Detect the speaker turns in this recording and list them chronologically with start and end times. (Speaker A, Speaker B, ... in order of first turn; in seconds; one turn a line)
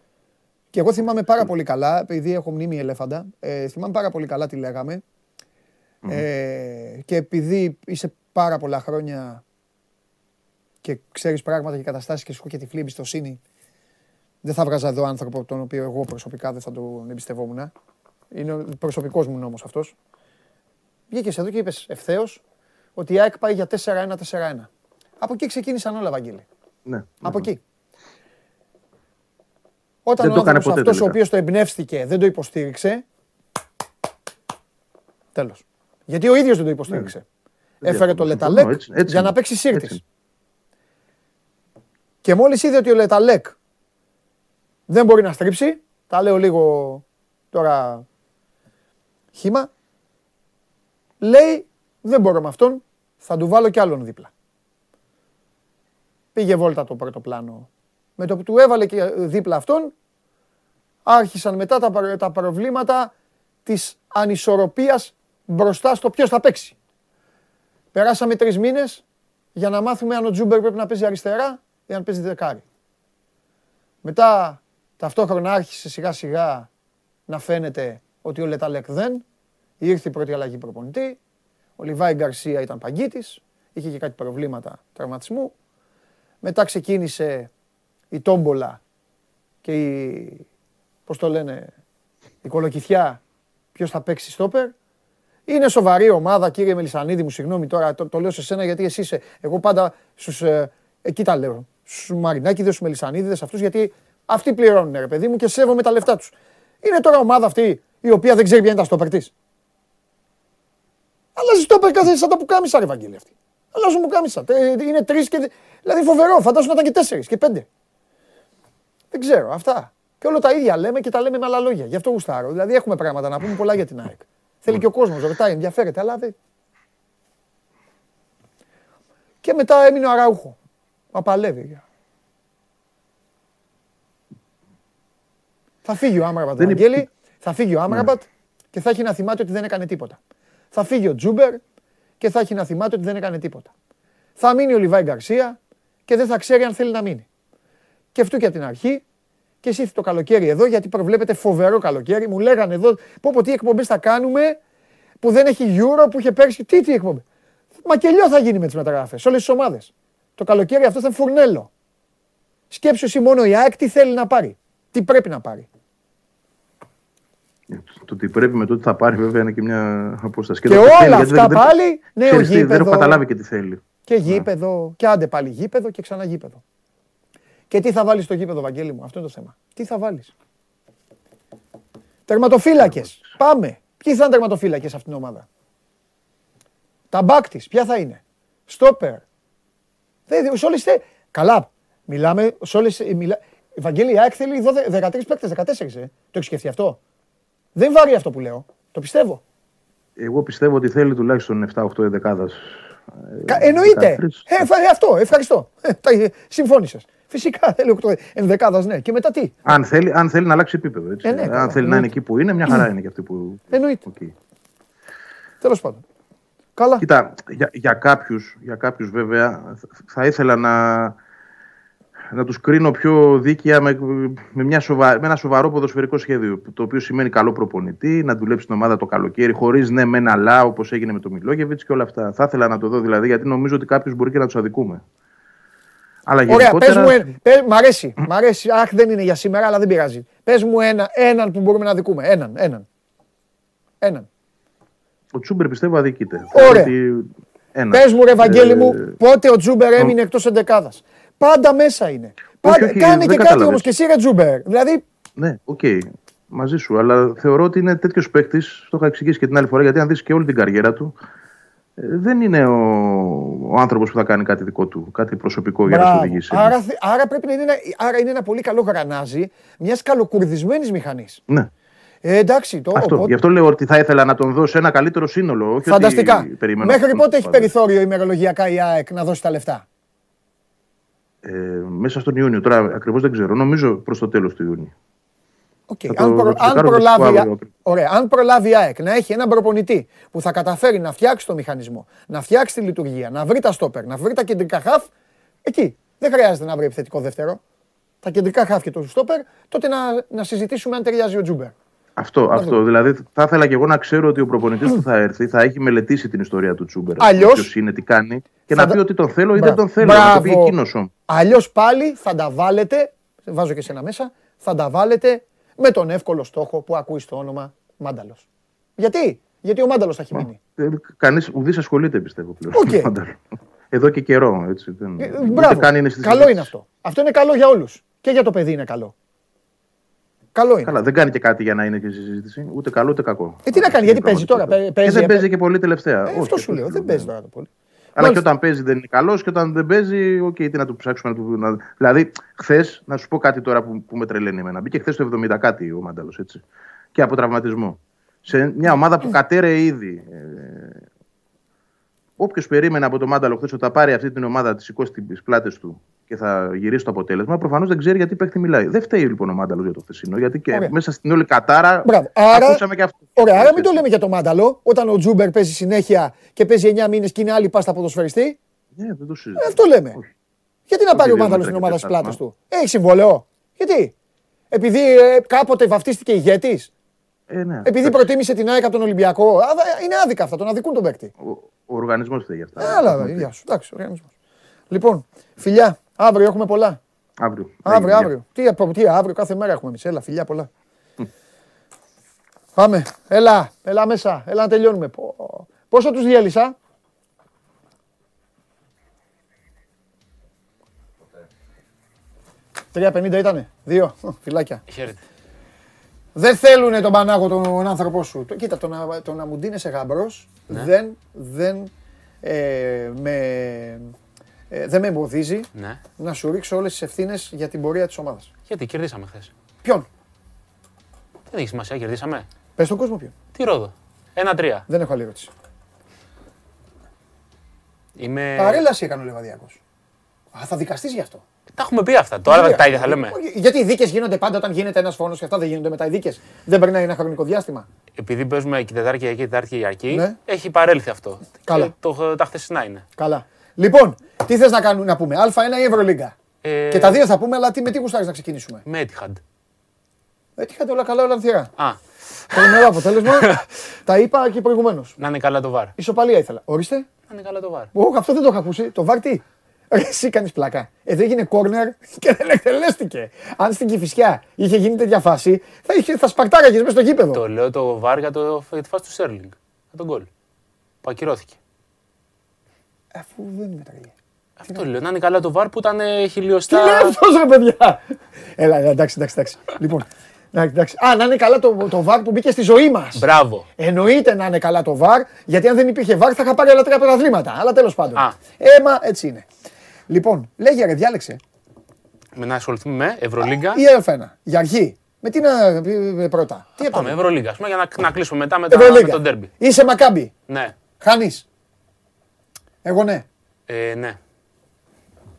Speaker A: 0.7-5.0
Speaker A: 6.1-9.4
Speaker A: 10.8-13.4
Speaker A: 14.4-17.7
Speaker A: 18.3-19.9
Speaker A: 21.1-22.4
Speaker A: 23.0-24.7
Speaker A: 25.2-26.4
Speaker B: 26.9-27.5
Speaker A: 27.2-27.6
Speaker A: 30.1-33.0
Speaker B: 30.2-31.2
Speaker A: 35.4-37.2
Speaker A: 37.8-40.0
Speaker B: 37.8-40.0
Speaker A: 42.2-43.5
Speaker A: 44.9-48.0
Speaker A: 49.4-49.7
Speaker A: 51.2-54.3
Speaker A: 56.4-59.9
Speaker A: 61.0-63.1
Speaker A: 63.7-66.8
Speaker A: 67.9-69.0
Speaker A: 69.5-72.6
Speaker A: 74.0-76.7
Speaker A: 77.3-79.2
Speaker A: 79.8-81.2
Speaker A: 81.8-85.5
Speaker A: 86.4-87.5
Speaker A: 88.1-88.8
Speaker A: 89.6-90.5
Speaker A: 91.1-91.7
Speaker A: 92.4-93.2
Speaker A: 93.8-94.7
Speaker A: 95.5-109.3
Speaker A: 111.4-117.7
Speaker A: 119.1-126.3
Speaker A: 129.4-130.6
Speaker A: 131.1-131.8
Speaker A: 135.8-140.2
Speaker B: 136.6-137.0
Speaker A: 140.7-141.6
Speaker A: 142.2-143.7
Speaker A: 144.4-147.3
Speaker A: 148.1-149.0
Speaker A: 149.6-154.6
Speaker A: 155.2-157.2
Speaker A: 157.8-161.7
Speaker A: 162.7-165.7
Speaker B: 167.7-174.5
Speaker A: 170.7-173.2
Speaker A: 174.1-176.6
Speaker A: 177.7-180.3
Speaker A: 182.3-185.5
Speaker A: 187.1-189.2
Speaker A: 190.3-197.0
Speaker A: 197.8-199.4
Speaker B: 200.2-204.5
Speaker A: 203.5-209.7
Speaker B: 209.7-214.3
Speaker A: 211.2-212.1
Speaker A: 213.7-214.0
Speaker A: 215.6-216.0
Speaker A: 216.8-217.1
Speaker B: 217.0-221.2
Speaker B: 222.3-235.0
Speaker B: 236.3-237.3
Speaker A: 236.5-242.8
Speaker A: 244.0-244.3
Speaker B: 245.3-249.2
Speaker A: 246.5-246.9
Speaker A: 247.9-255.0
Speaker B: 252.6-253.9
Speaker B: 255.4-261.1
Speaker B: 262.0-266.8
Speaker A: 265.9-271.4
Speaker A: 272.2-273.4
Speaker B: 272.9-277.7
Speaker A: 275.9-279.9
Speaker B: 281.4-284.9
Speaker A: 285.9-295.1
Speaker B: 286.1-287.7
Speaker A: 295.7-297.6
Speaker A: 298.2-301.7
Speaker B: 302.2-311.1
Speaker A: 307.2-307.7
Speaker A: 308.7-309.0
Speaker A: 309.6-310.8
Speaker A: 311.3-318.4
Speaker A: 319.0-320.6
Speaker B: 320.3-323.4
Speaker A: 322.7-323.1
Speaker B: 323.9-326.7
Speaker A: 325.2-329.1
Speaker A: 330.6-330.9
Speaker B: 330.8-337.3
Speaker A: 333.7-335.5
Speaker A: 336.3-338.4
Speaker B: 338.2-346.6
Speaker B: 347.1-351.0
Speaker B: 352.4-364.1
Speaker A: 362.1-362.8
Speaker A: 363.4-368.6
Speaker B: 369.0-370.3
Speaker A: 369.6-370.2
Speaker A: 370.9-374.1
Speaker B: 371.1-372.4
Speaker A: 374.7-376.9
Speaker B: 377.5-378.3
Speaker A: 377.8-381.3
Speaker B: 381.4-383.5
Speaker A: 382.8-384.3
Speaker A: 384.9-387.0
Speaker B: 387.4-388.3
Speaker A: 387.8-390.7
Speaker A: 392.8-396.8
Speaker A: 402.9-404.8
Speaker C: 404.9-405.2
Speaker A: 406.4-411.9
Speaker A: 412.4-414.1
Speaker A: 414.7-418.5
Speaker C: 415.7-416.0
Speaker C: 418.7-419.5
Speaker C: 421.5-422.5
Speaker A: 422.8-423.3
Speaker C: 423.5-424.9
Speaker A: 424.9-425.5
Speaker C: 428.2-428.9
Speaker A: 428.6-429.8
Speaker A: 430.5-431.4
Speaker C: 431.7-433.4
Speaker A: 432.5-437.9
Speaker C: 438.2-443.1
Speaker A: 440.1-440.4
Speaker A: 441.7-441.9
Speaker A: 443.2-446.4
Speaker C: 446.6-447.2
Speaker A: 446.9-448.8
Speaker C: 448.9-449.4
Speaker A: 450.6-451.7
Speaker C: 451.8-453.6
Speaker A: 452.5-455.2
Speaker C: 455.2-455.9
Speaker A: 456.0-457.1
Speaker C: 457.3-457.9
Speaker A: 457.9-467.4
Speaker C: 467.3-470.3
Speaker C: 471.0-471.6
Speaker A: 473.1-474.1
Speaker C: 474.6-477.2
Speaker A: 476.7-489.5
Speaker C: 483.1-483.7
Speaker A: 490.1-491.4
Speaker C: 492.3-493.8
Speaker A: 493.5-497.2
Speaker C: 496.8-499.5
Speaker A: 498.7-500.3
Speaker C: 500.5-500.8
Speaker A: 501.0-501.4
Speaker A: 502.9-503.2
Speaker C: 503.7-504.2